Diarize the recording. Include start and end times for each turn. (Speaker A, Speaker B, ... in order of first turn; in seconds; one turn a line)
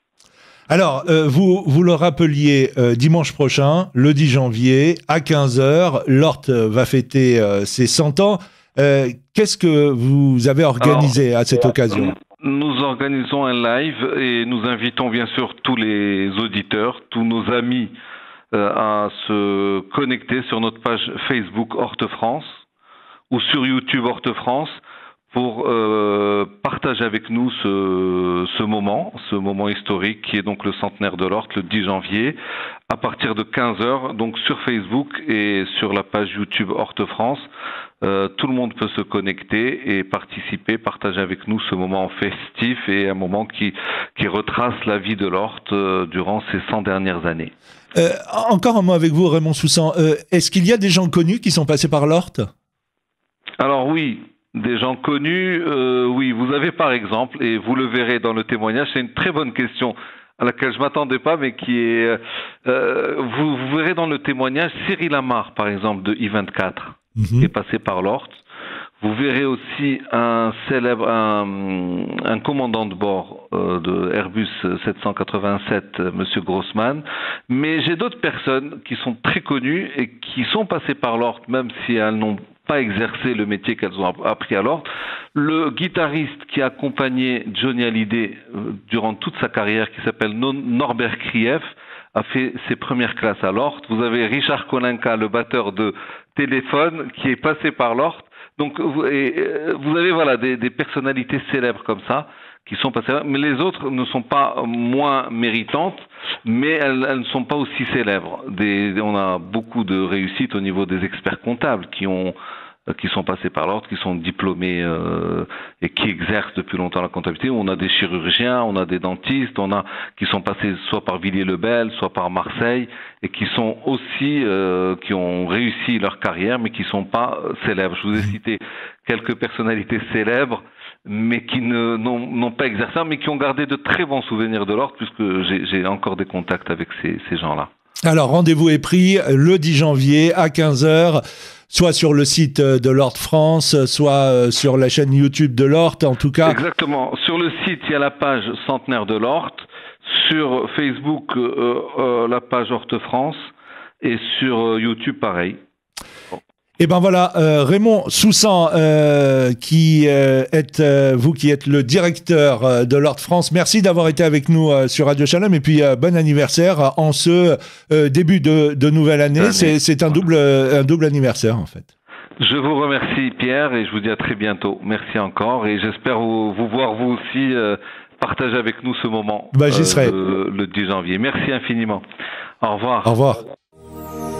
Speaker A: 0.7-12.1
Speaker B: 10.8-11.1
Speaker B: 11.9-17.9
Speaker B: 18.5-22.6
Speaker B: 23.3-32.4
Speaker B: 32.9-37.5
Speaker B: 38.0-47.5
Speaker A: 47.9-52.5
Speaker B: 53.6-68.4
Speaker A: 67.2-67.5
Speaker B: 69.0-112.3
Speaker B: 112.9-137.7
Speaker A: 138.0-146.6
Speaker B: 146.4-155.6
Speaker A: 156.8-171.8
Speaker B: 169.3-170.2
Speaker B: 172.4-182.0
Speaker A: 179.5-180.2
Speaker B: 182.6-183.1
Speaker A: 183.0-183.4